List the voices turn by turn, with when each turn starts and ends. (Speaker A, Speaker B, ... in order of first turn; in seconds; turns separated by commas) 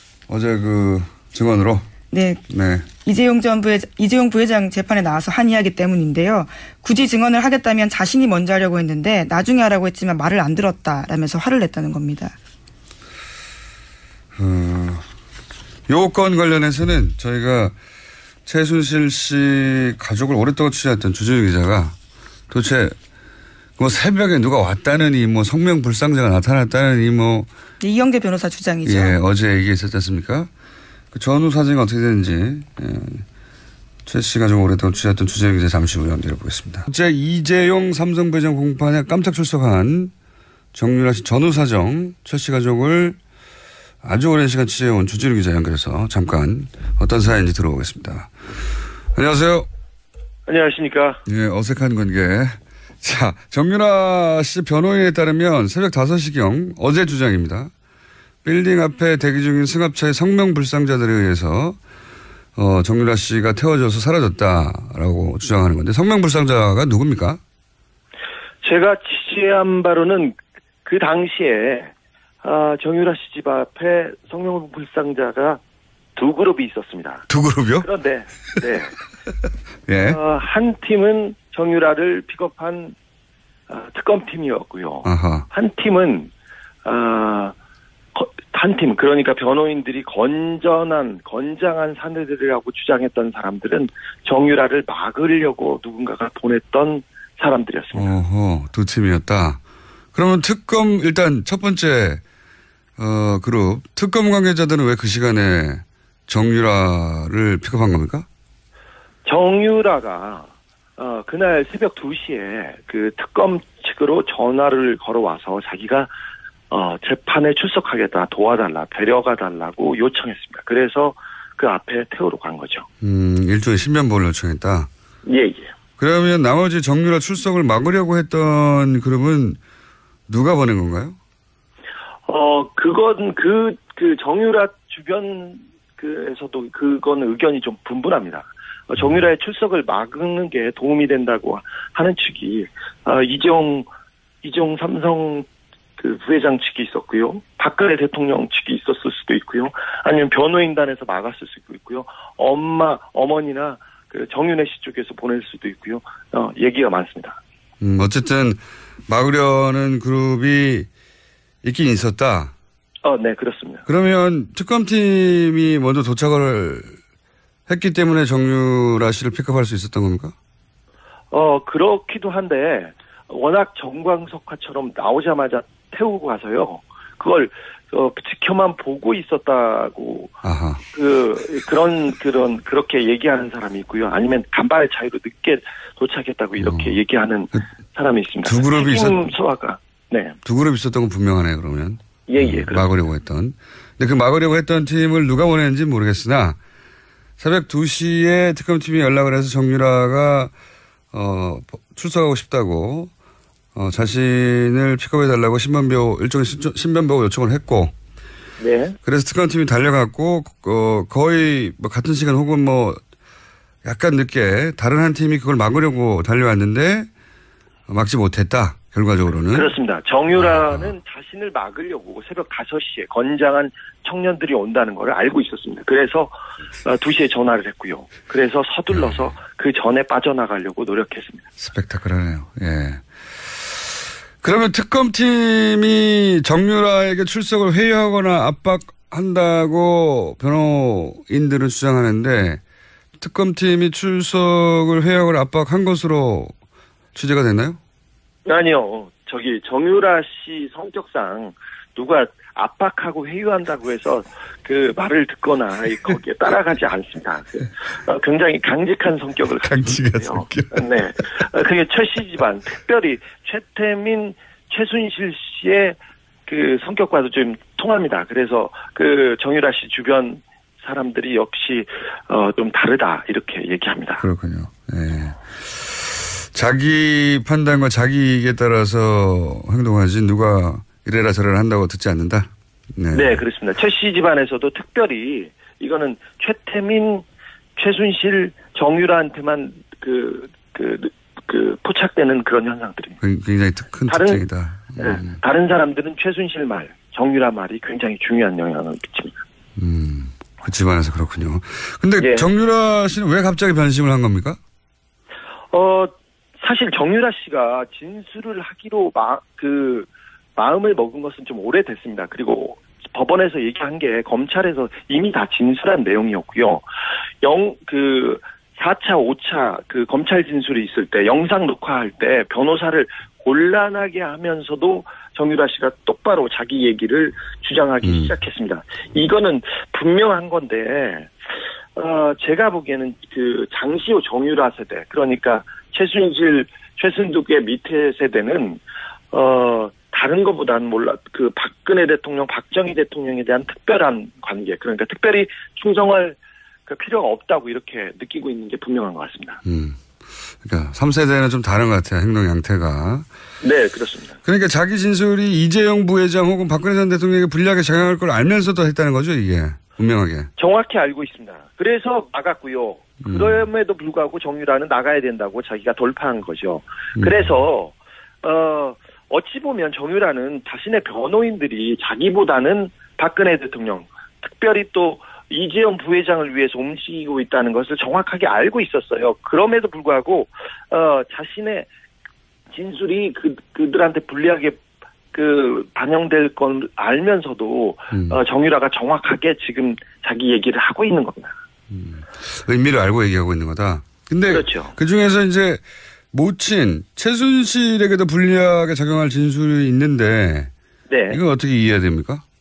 Speaker A: 0.3-1.9, Speaker B: 2.1-2.4, Speaker A: 2.5-2.9, Speaker B: 3.0-12.3, Speaker A: 14.3-15.0, Speaker A: 15.9-17.7, Speaker A: 18.4-21.9, Speaker A: 22.5-22.9, Speaker A: 23.8-27.5, Speaker B: 27.8-29.2, Speaker A: 28.9-30.5, Speaker A: 31.1-33.2, Speaker A: 34.0-40.1, Speaker A: 40.7-43.2, Speaker A: 44.0-48.3, Speaker A: 49.1-49.7, Speaker C: 50.5-51.2, Speaker A: 51.2-57.7, Speaker A: 58.4-61.8, Speaker A: 62.5-67.4, Speaker C: 68.6-75.6, Speaker C: 76.2-77.2, Speaker A: 77.3-77.9, Speaker C: 77.8-79.0, Speaker A: 79.9-80.2, Speaker C: 80.0-82.9, Speaker C: 83.7-86.3, Speaker A: 85.0-85.5, Speaker C: 86.8-87.5, Speaker C: 88.1-98.2, Speaker A: 97.9-99.6, Speaker A: 100.1-102.2, Speaker A: 103.0-108.3, Speaker C: 109.2-116.1, Speaker C: 116.7-122.8, Speaker A: 123.0-124.9, Speaker C: 125.2-125.7, Speaker A: 126.0-129.6, Speaker A: 130.3-131.2, Speaker C: 132.2-143.9, Speaker C: 144.4-145.5, Speaker C: 146.0-157.4, Speaker A: 157.8-160.9, Speaker A: 161.6-162.5, Speaker C: 163.0-163.8, Speaker A: 163.8-167.0, Speaker A: 167.7-170.3, Speaker C: 171.3-180.3, Speaker A: 180.4-180.8, Speaker C: 180.9-190.4, Speaker A: 186.6-187.0, Speaker A: 188.4-189.3, Speaker A: 190.4-196.6, Speaker C: 192.3-192.9, Speaker A: 197.4-200.5, Speaker A: 201.1-203.1, Speaker A: 203.7-207.9, Speaker C: 208.6-208.9, Speaker A: 209.0-213.0, Speaker A: 213.8-217.1, Speaker A: 217.9-219.7, Speaker C: 219.5-231.4, Speaker A: 220.4-220.8, Speaker A: 231.6-242.6, Speaker A: 243.2-246.5, Speaker A: 247.1-247.8, Speaker C: 248.4-274.2, Speaker A: 259.5-261.3, Speaker A: 274.2-283.4, Speaker C: 283.1-287.2, Speaker C: 287.8-293.2, Speaker A: 293.2-295.3, Speaker C: 294.1-294.4, Speaker C: 294.9-299.4, Speaker A: 299.8-304.6, Speaker C: 302.2-302.5, Speaker C: 305.7-316.8, Speaker C: 317.4-331.3, Speaker A: 328.0-328.3, Speaker C: 331.9-338.8, Speaker C: 339.3-349.6, Speaker A: 349.6-350.0, Speaker A: 350.6-353.2, Speaker C: 353.6-354.4, Speaker A: 354.4-360.5, Speaker C: 360.6-381.9, Speaker A: 363.2-363.6, Speaker C: 382.7-384.8, Speaker C: 385.3-391.5, Speaker A: 388.1-388.4, Speaker A: 391.9-400.7, Speaker C: 394.5-394.9, Speaker C: 401.1-401.4, Speaker A: 401.3-402.4